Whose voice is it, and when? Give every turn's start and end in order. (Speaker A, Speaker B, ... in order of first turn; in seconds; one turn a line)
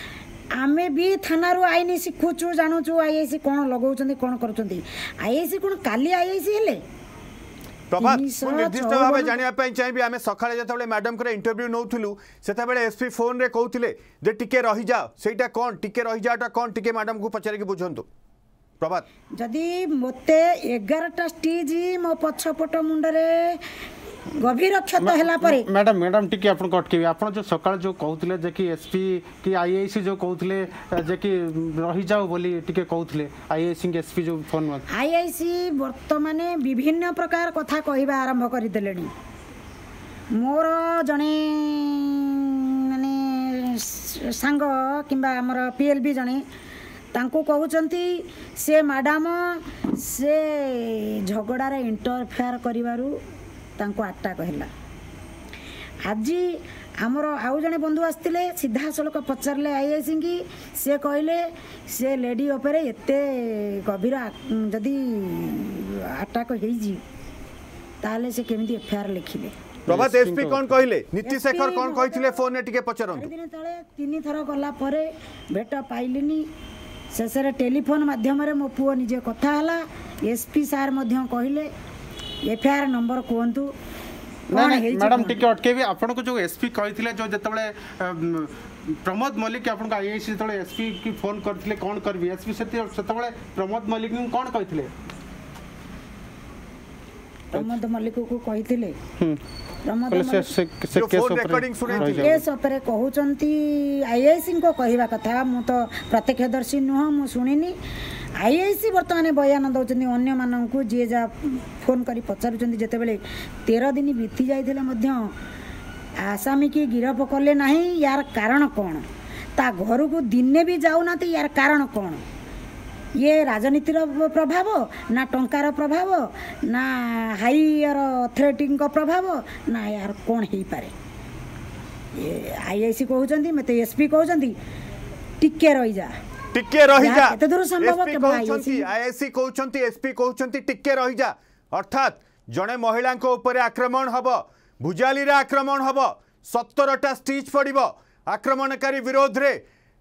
Speaker A: 0.6-6.8
Speaker B: 7.9-18.1
Speaker A: 8.0-9.4
Speaker B: 18.8-19.1
Speaker A: 19.4-23.6
Speaker A: 24.4-25.7
Speaker C: 25.0-34.9
Speaker A: 34.9-39.1
Speaker A: 40.4-46.4
Speaker A: 47.1-53.2
Speaker A: 53.8-54.7
Speaker A: 56.0-67.0
Speaker A: 68.0-69.6
Speaker C: 69.9-70.7
Speaker B: 69.9-73.3
Speaker A: 71.3-72.4
Speaker A: 73.1-76.5
Speaker A: 77.1-81.7
Speaker A: 82.4-83.7
Speaker C: 84.5-94.9
Speaker A: 84.5-85.4
Speaker A: 97.5-99.0
Speaker A: 99.9-100.5
Speaker C: 100.1-102.4
Speaker B: 100.9-102.4
Speaker A: 101.9-107.8
Speaker A: 108.4-115.3
Speaker A: 116.2-119.0
Speaker A: 119.6-122.2
Speaker A: 123.2-130.9
Speaker A: 132.2-134.6
Speaker A: 135.4-136.2
Speaker B: 136.5-149.6
Speaker A: 137.0-138.8